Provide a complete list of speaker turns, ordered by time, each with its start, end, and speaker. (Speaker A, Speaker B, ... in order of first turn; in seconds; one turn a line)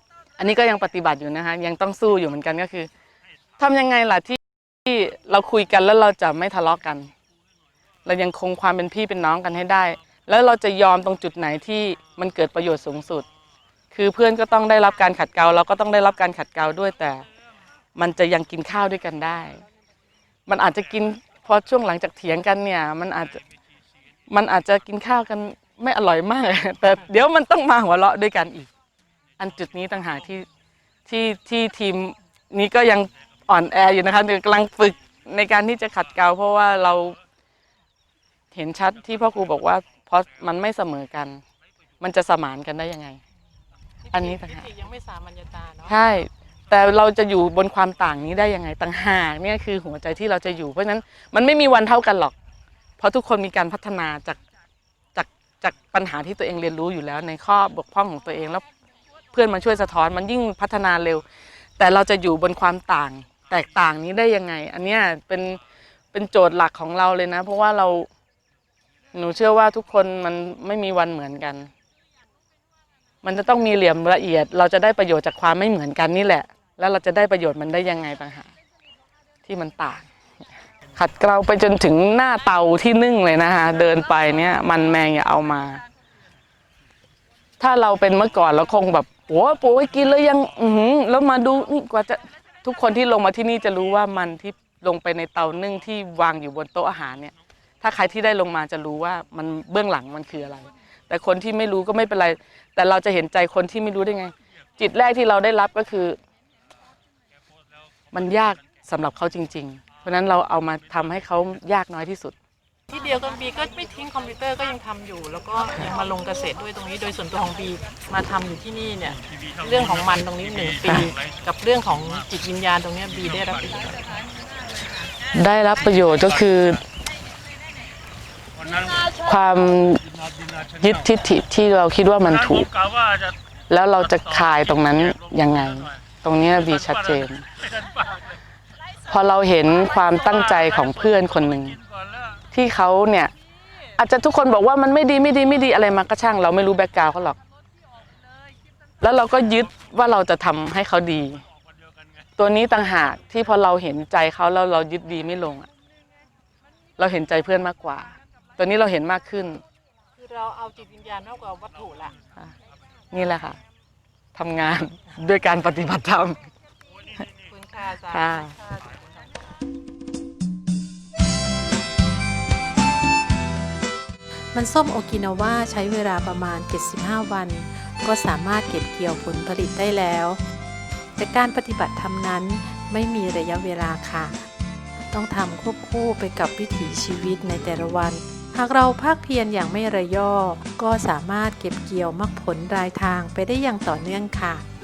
Speaker A: 0.4-2.9
Speaker A: 3.6-7.1
Speaker A: 8.0-13.2
Speaker A: 13.9-17.2
Speaker A: 17.9-19.6
Speaker A: 20.5-23.4
Speaker A: 24.3-28.7
Speaker A: 29.4-30.5
Speaker A: 31.1-37.2
Speaker A: 38.5-41.4
Speaker A: 42.0-43.2
Speaker B: 44.0-46.0
Speaker A: 44.1-44.6
Speaker A: 45.9-52.3
Speaker A: 53.0-54.4
Speaker A: 55.1-58.6
Speaker A: 59.3-61.2
Speaker A: 61.8-65.6
Speaker A: 66.1-68.1
Speaker A: 69.1-71.7
Speaker A: 73.2-78.5
Speaker A: 79.5-80.0
Speaker A: 80.9-85.8
Speaker A: 87.6-106.2
Speaker A: 108.1-112.3
Speaker B: 112.9-124.0
Speaker A: 125.3-126.8
Speaker A: 129.0-130.1
Speaker A: 130.7-132.7
Speaker A: 133.7-137.4
Speaker A: 139.1-141.8
Speaker A: 142.5-143.3
Speaker A: 143.9-147.4
Speaker A: 149.0-151.4
Speaker A: 152.4-155.7
Speaker A: 157.0-159.6
Speaker B: 160.2-162.1
Speaker A: 163.1-163.6
Speaker A: 164.3-166.4
Speaker B: 167.5-169.3
Speaker A: 168.1-168.5
Speaker C: 174.5-180.4
Speaker C: 181.2-184.3
Speaker C: 185.1-194.6